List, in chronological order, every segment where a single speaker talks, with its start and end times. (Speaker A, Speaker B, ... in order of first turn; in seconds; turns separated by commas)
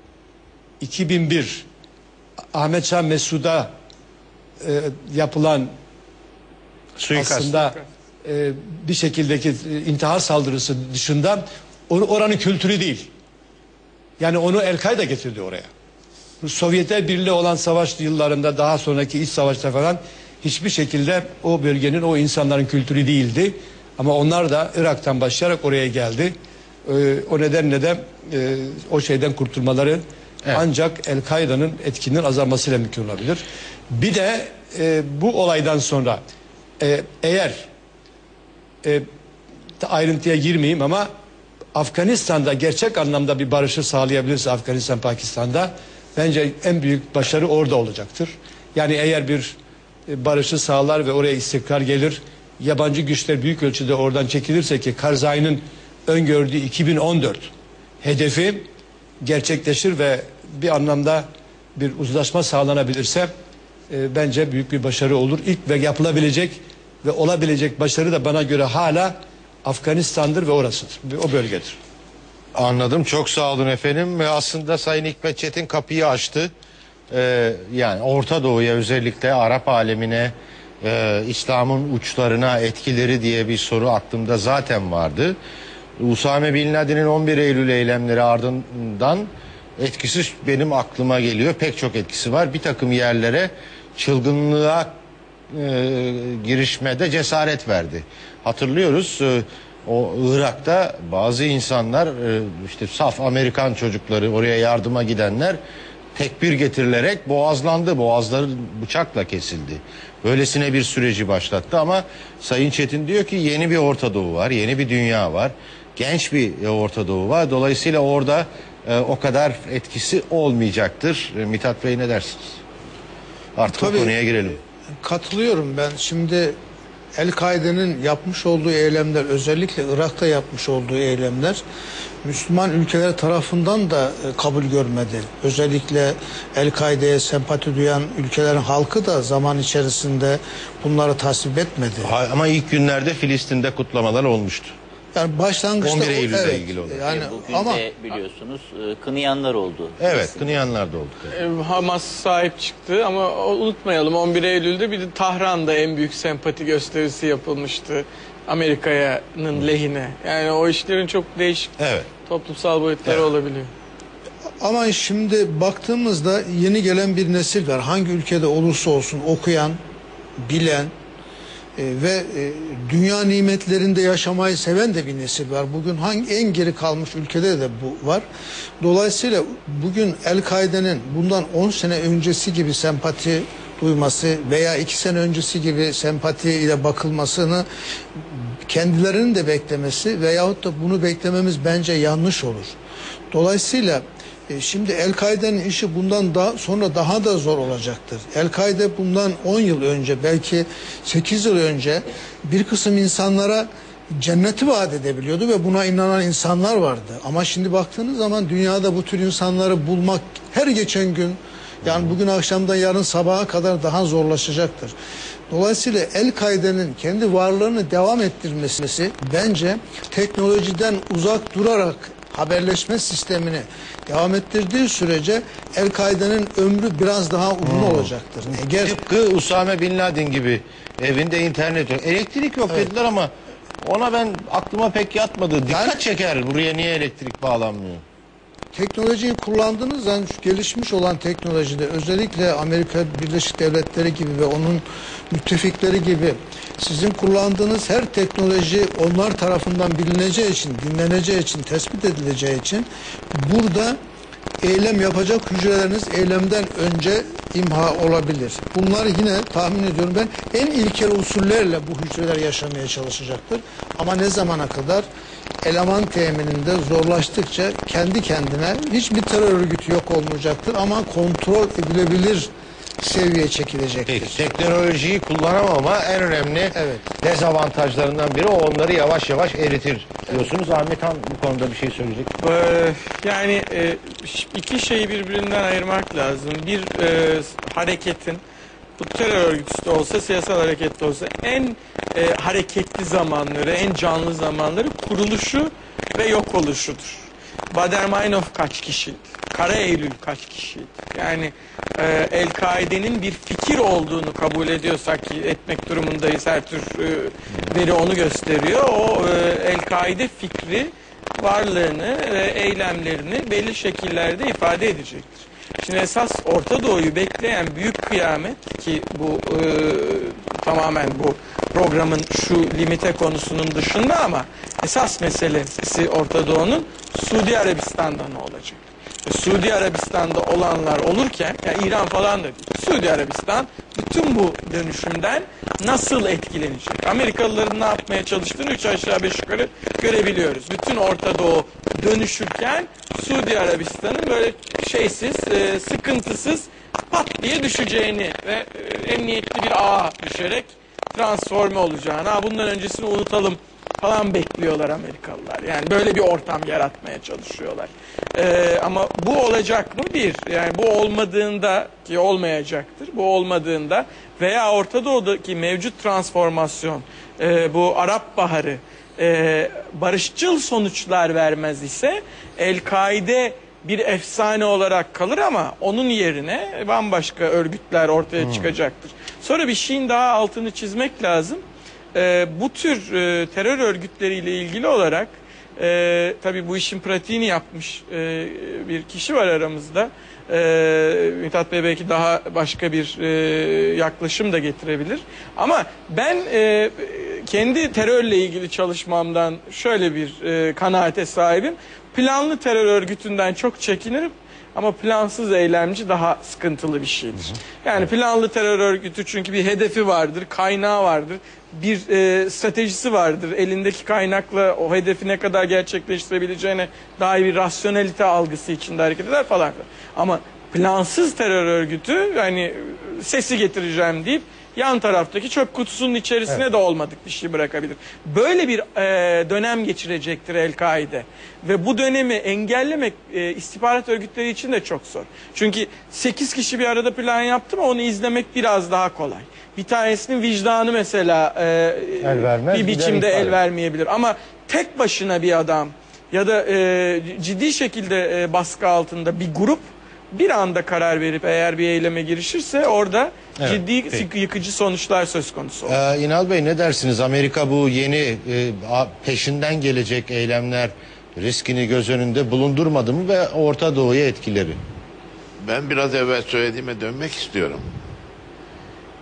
Speaker A: 0.8-1.7, Speaker A: 2.5-3.7, Speaker A: 4.6-5.7, Speaker B: 7.0-7.6, Speaker A: 7.2-13.1, Speaker A: 14.2-15.7, Speaker A: 16.4-26.4, Speaker A: 26.9-30.0, Speaker A: 30.5-36.2, Speaker A: 36.8-37.7, Speaker A: 39.8-41.1, Speaker A: 41.8-49.6, Speaker A: 50.1-57.5, Speaker A: 58.0-58.7, Speaker A: 59.2-63.3, Speaker A: 63.9-71.8, Speaker B: 72.5-76.5, Speaker B: 77.1-85.4, Speaker B: 86.0-95.0, Speaker B: 95.5-105.6, Speaker B: 106.2-122.6, Speaker B: 123.6-124.6, Speaker C: 123.7-124.1, Speaker C: 125.0-126.6, Speaker C: 127.2-131.6, Speaker C: 132.2-142.1, Speaker B: 142.0-144.8, Speaker C: 145.2-147.8, Speaker B: 145.8-147.1, Speaker D: 147.1-150.3, Speaker B: 150.0-151.3, Speaker E: 151.3-161.7, Speaker B: 161.8-162.1, Speaker E: 162.3-163.7, Speaker C: 164.6-169.8, Speaker C: 170.4-170.9, Speaker C: 171.8-178.2, Speaker C: 178.8-187.7, Speaker C: 188.7-192.8, Speaker C: 193.3-214.9, Speaker B: 211.8-212.1, Speaker C: 215.5-228.9, Speaker B: 227.6-238.0, Speaker C: 235.7-236.0, Speaker C: 238.7-254.0, Speaker C: 254.6-265.1, Speaker C: 265.6-272.5, Speaker C: 273.0-274.4, Speaker B: 274.1-282.3, Speaker C: 276.8-277.0, Speaker E: 282.4-288.4, Speaker E: 289.0-456.0, Speaker B: 378.4-378.7, Speaker B: 442.2-443.6, Speaker B: 453.6-454.3, Speaker B: 455.9-464.8, Speaker F: 465.6-467.9